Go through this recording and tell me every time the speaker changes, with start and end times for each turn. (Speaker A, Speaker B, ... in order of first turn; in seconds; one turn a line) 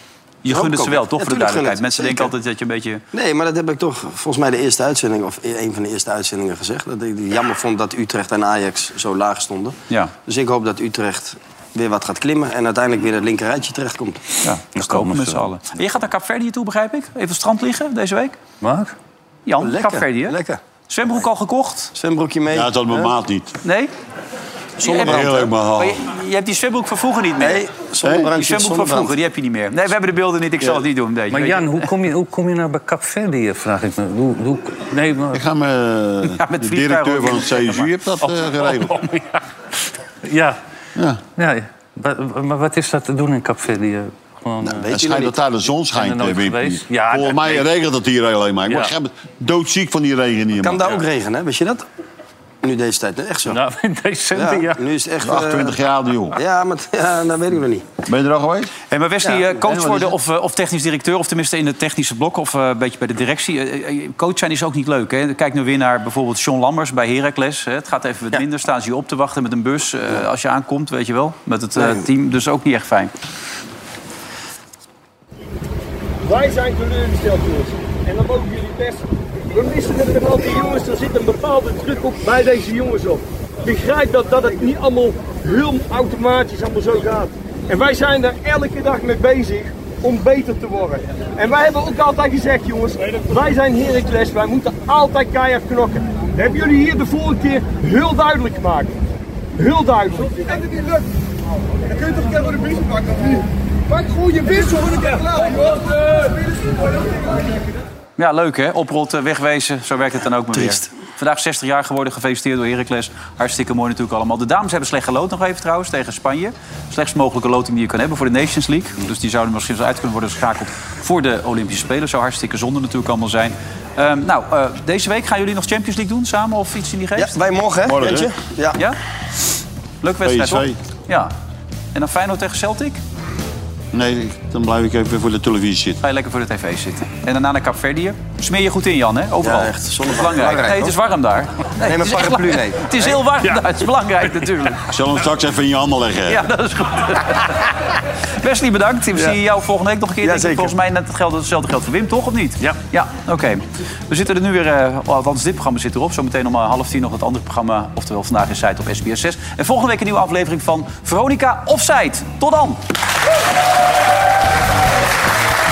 Speaker A: 0.4-3.0
Speaker B: 0.5-2.3
Speaker B: 3.1-14.2
Speaker A: 14.4-18.4
Speaker C: 14.8-15.5
Speaker C: 18.6-18.9
Speaker A: 19.5-20.4
Speaker B: 19.6-20.6
Speaker A: 20.9-21.9
Speaker B: 21.9-23.1
Speaker D: 22.5-23.6
Speaker A: 23.6-23.9
Speaker A: 24.8-27.7
Speaker B: 24.8-25.5
Speaker D: 24.9-26.0
Speaker B: 27.4-29.2
Speaker D: 28.0-28.3
Speaker A: 28.3-31.9
Speaker C: 31.3-35.4
Speaker D: 35.3-39.0
Speaker A: 36.2-37.9
Speaker C: 38.5-39.4
Speaker C: 40.2-40.6
Speaker D: 41.0-41.2
Speaker C: 41.4-44.9
Speaker B: 44.6-45.4
Speaker D: 44.9-51.0
Speaker C: 45.9-47.7
Speaker B: 50.6-51.8
Speaker B: 52.6-53.6
Speaker C: 53.5-54.8
Speaker B: 54.4-55.8
Speaker D: 55.2-56.4
Speaker B: 56.3-57.9
Speaker D: 58.1-58.7
Speaker A: 58.9-73.1
Speaker B: 59.2-60.0
Speaker B: 71.8-72.0
Speaker E: 76.3-98.9
Speaker E: 99.6-101.0
Speaker E: 102.0-105.8
Speaker A: 108.2-127.3
Speaker B: 110.5-110.9
Speaker B: 127.2-128.8
Speaker D: 127.9-128.3
Speaker A: 130.0-131.3
Speaker D: 130.2-130.8
Speaker A: 131.9-133.0
Speaker D: 133.9-136.0
Speaker A: 136.0-144.8
Speaker B: 139.4-141.0
Speaker B: 141.8-143.2
Speaker D: 144.9-146.5
Speaker A: 146.3-147.7
Speaker A: 148.4-162.8
Speaker B: 150.2-150.8